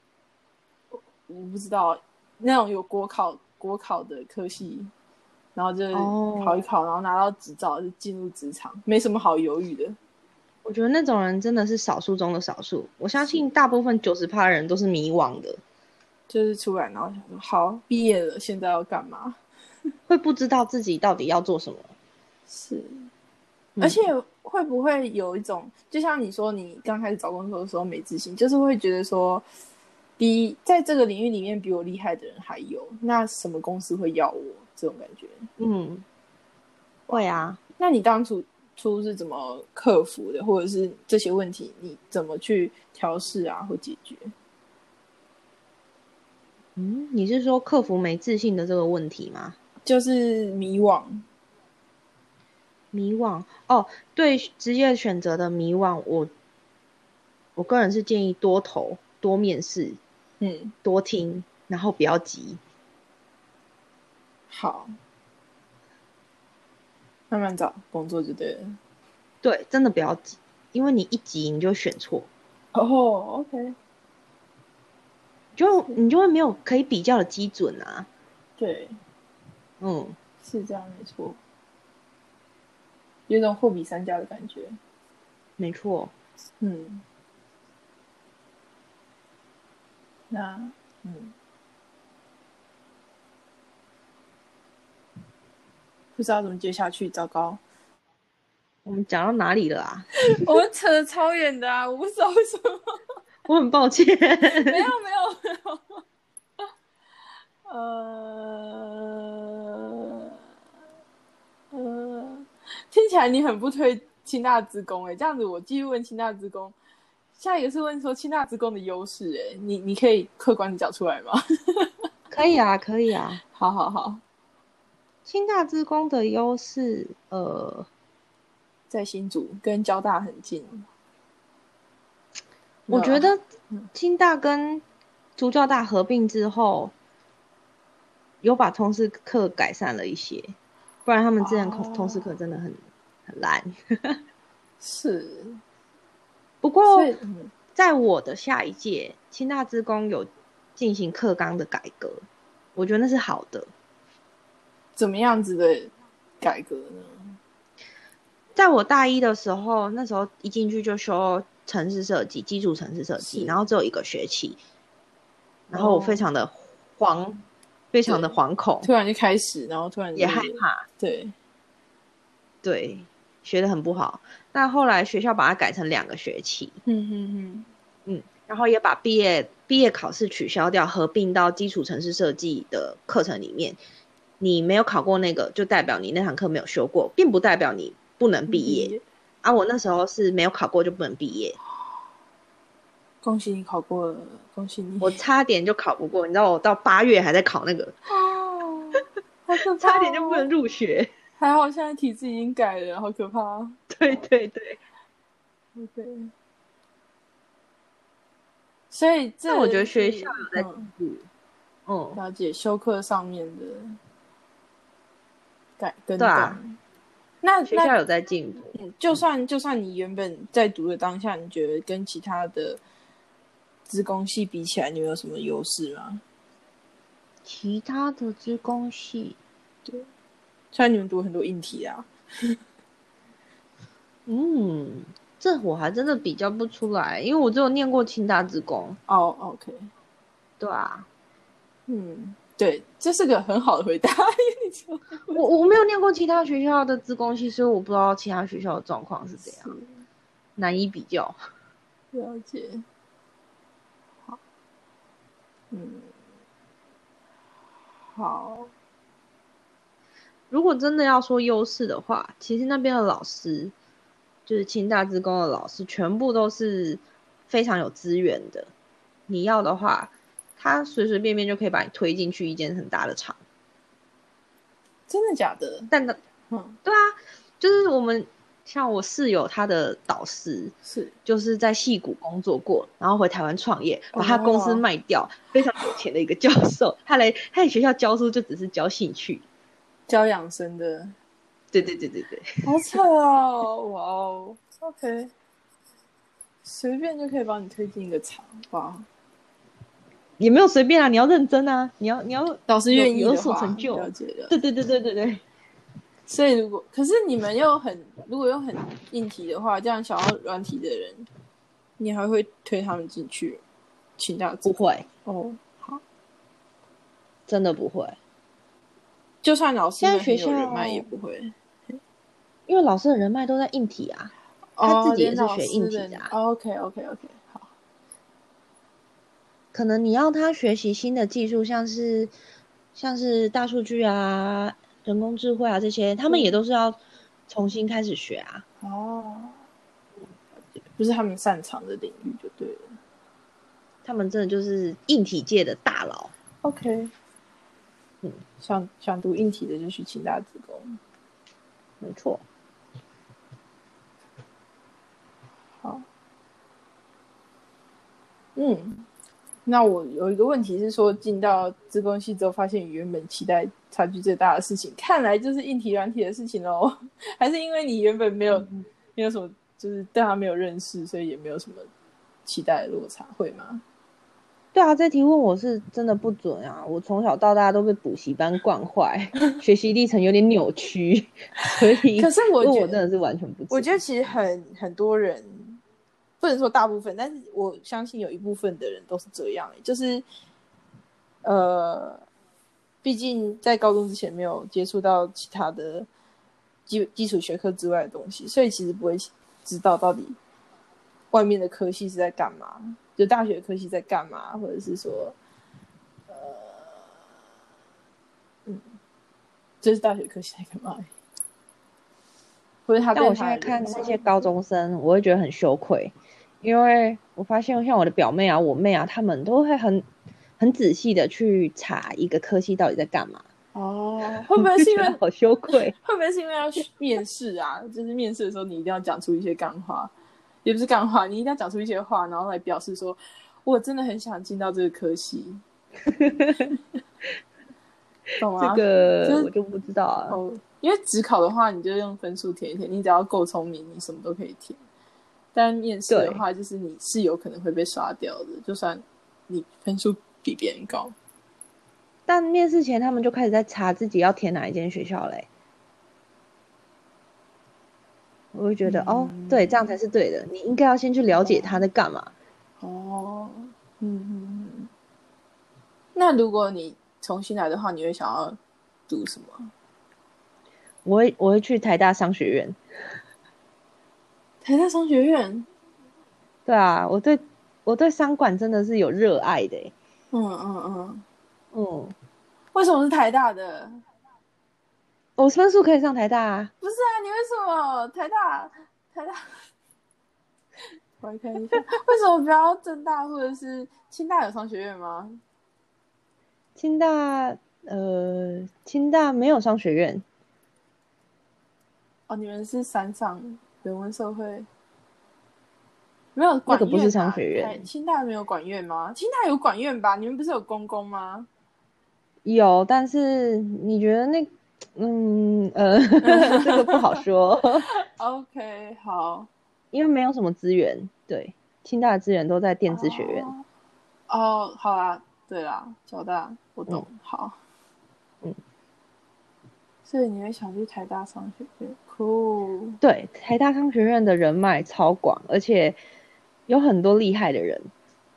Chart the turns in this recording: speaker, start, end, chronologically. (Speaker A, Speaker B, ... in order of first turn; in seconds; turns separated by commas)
Speaker A: 0.9-4.9, Speaker A: 5.5-10.0, Speaker B: 5.9-6.6, Speaker B: 10.6-15.6, Speaker A: 16.3-19.4, Speaker B: 20.1-21.9, Speaker A: 22.5-23.1, Speaker B: 23.8-24.0, Speaker A: 23.8-29.4, Speaker A: 30.2-35.5, Speaker B: 35.6-36.0, Speaker A: 37.1-44.3, Speaker B: 37.1-37.6, Speaker B: 46.8-49.6, Speaker A: 49.9-51.2, Speaker B: 52.9-56.3, Speaker B: 57.6-60.0, Speaker A: 60.4-60.7, Speaker B: 60.8-62.6, Speaker A: 64.5-65.0, Speaker A: 67.3-68.8, Speaker B: 69.4-72.3, Speaker A: 72.7-73.8, Speaker B: 75.6-78.1, Speaker A: 78.6-79.0, Speaker B: 79.8-80.2, Speaker A: 80.4-81.4, Speaker A: 83.3-84.8, Speaker B: 85.6-86.1, Speaker A: 86.6-87.0, Speaker A: 90.3-91.3, Speaker A: 96.2-97.6, Speaker B: 98.9-100.1, Speaker A: 100.3-103.0, Speaker B: 103.5-104.9, Speaker A: 104.5-106.0, Speaker A: 107.7-110.3, Speaker A: 111.7-116.8, Speaker A: 117.4-121.9, Speaker B: 122.3-123.4, Speaker A: 123.5-124.2, Speaker B: 125.3-127.9, Speaker A: 128.9-130.9, Speaker A: 132.9-133.9, Speaker B: 132.9-133.4, Speaker B: 133.9-134.8, Speaker B: 135.4-136.9, Speaker B: 138.4-144.2, Speaker A: 141.4-142.3, Speaker A: 144.8-145.6, Speaker B: 146.6-147.1, Speaker A: 146.9-147.5, Speaker B: 147.8-152.2, Speaker B: 152.8-153.7, Speaker A: 155.0-157.4, Speaker B: 158.6-164.6, Speaker A: 163.2-163.6, Speaker B: 165.7-167.4, Speaker A: 165.7-166.2, Speaker B: 167.9-168.9, Speaker A: 168.1-171.3, Speaker B: 170.2-170.9, Speaker B: 172.6-176.8, Speaker A: 176.9-177.7, Speaker B: 178.1-183.8, Speaker B: 184.4-191.6, Speaker A: 188.5-189.0, Speaker A: 193.2-195.2, Speaker B: 195.0-197.9, Speaker A: 198.1-200.5, Speaker B: 199.7-201.1, Speaker A: 201.4-203.8, Speaker B: 203.9-204.8, Speaker A: 205.8-206.3, Speaker A: 208.9-210.9, Speaker B: 209.5-211.3, Speaker B: 211.9-212.2, Speaker A: 212.2-214.0, Speaker A: 215.8-216.8, Speaker B: 216.2-216.6, Speaker A: 217.4-217.9, Speaker B: 217.7-218.8, Speaker A: 218.7-222.8, Speaker A: 223.9-226.2, Speaker B: 227.4-229.4, Speaker A: 230.7-232.6, Speaker B: 234.3-239.0, Speaker A: 239.1-239.9, Speaker B: 240.6-241.1, Speaker A: 241.9-245.4, Speaker B: 245.3-249.7, Speaker A: 249.5-249.9, Speaker B: 250.6-251.4, Speaker A: 252.1-252.8, Speaker A: 255.7-256.1, Speaker A: 258.2-258.7, Speaker B: 260.5-263.7, Speaker B: 264.5-268.7, Speaker B: 269.3-273.4, Speaker A: 275.1-275.9, Speaker B: 275.9-276.2, Speaker A: 276.5-276.8, Speaker B: 276.9-280.7, Speaker A: 280.9-281.1, Speaker B: 281.3-289.4, Speaker A: 284.1-284.8, Speaker A: 290.1-291.1, Speaker B: 291.7-292.6, Speaker A: 292.6-295.3, Speaker A: 296.6-299.1, Speaker B: 300.4-305.4, Speaker A: 302.7-304.6, Speaker A: 306.3-311.3, Speaker A: 312.0-313.6, Speaker A: 314.2-316.0, Speaker B: 314.6-315.1, Speaker B: 317.5-318.2, Speaker A: 319.4-321.5, Speaker B: 320.0-321.1, Speaker B: 322.7-326.3, Speaker A: 324.8-327.7, Speaker B: 329.7-332.3, Speaker B: 332.9-337.0, Speaker A: 336.3-336.6, Speaker B: 337.5-338.6, Speaker A: 338.8-339.6, Speaker A: 341.0-343.0, Speaker B: 344.1-346.3, Speaker A: 346.6-347.1, Speaker A: 348.6-351.0, Speaker B: 352.0-352.4, Speaker A: 358.6-359.1, Speaker A: 359.7-371.9, Speaker A: 372.5-373.8, Speaker B: 374.7-384.0, Speaker A: 382.1-383.0, Speaker A: 383.7-385.8, Speaker A: 386.4-390.2, Speaker A: 391.4-392.2, Speaker A: 393.0-396.1, Speaker A: 396.9-400.4, Speaker A: 401.3-405.4, Speaker A: 406.3-407.1, Speaker A: 409.8-411.1, Speaker A: 412.9-414.3, Speaker B: 413.2-420.1, Speaker B: 420.6-423.4, Speaker A: 423.8-425.2, Speaker B: 424.4-425.9, Speaker A: 426.0-430.1, Speaker A: 430.6-435.6, Speaker B: 436.1-436.7, Speaker A: 438.4-439.5, Speaker B: 438.6-440.4, Speaker A: 440.3-444.8, Speaker A: 445.5-451.1, Speaker B: 446.1-446.4, Speaker B: 452.3-455.5, Speaker B: 458.5-462.3, Speaker A: 458.9-459.9, Speaker A: 461.3-461.9, Speaker A: 462.8-464.9, Speaker A: 466.1-468.6, Speaker A: 469.1-469.7, Speaker B: 471.1-472.8, Speaker A: 474.6-475.7, Speaker B: 476.7-479.9, Speaker A: 480.3-481.2, Speaker B: 481.7-482.1, Speaker A: 482.7-483.9, Speaker B: 485.4-486.7, Speaker A: 486.8-489.5, Speaker A: 491.2-495.4, Speaker B: 496.8-500.2, Speaker A: 502.3-504.7, Speaker A: 506.4-511.5, Speaker B: 506.7-507.8, Speaker B: 512.5-517.9, Speaker A: 516.2-517.2, Speaker A: 517.9-519.5, Speaker B: 519.9-523.5, Speaker A: 522.9-523.6, Speaker A: 524.3-527.6, Speaker A: 530.1-533.0, Speaker B: 533.0-536.0, Speaker B: 536.7-537.9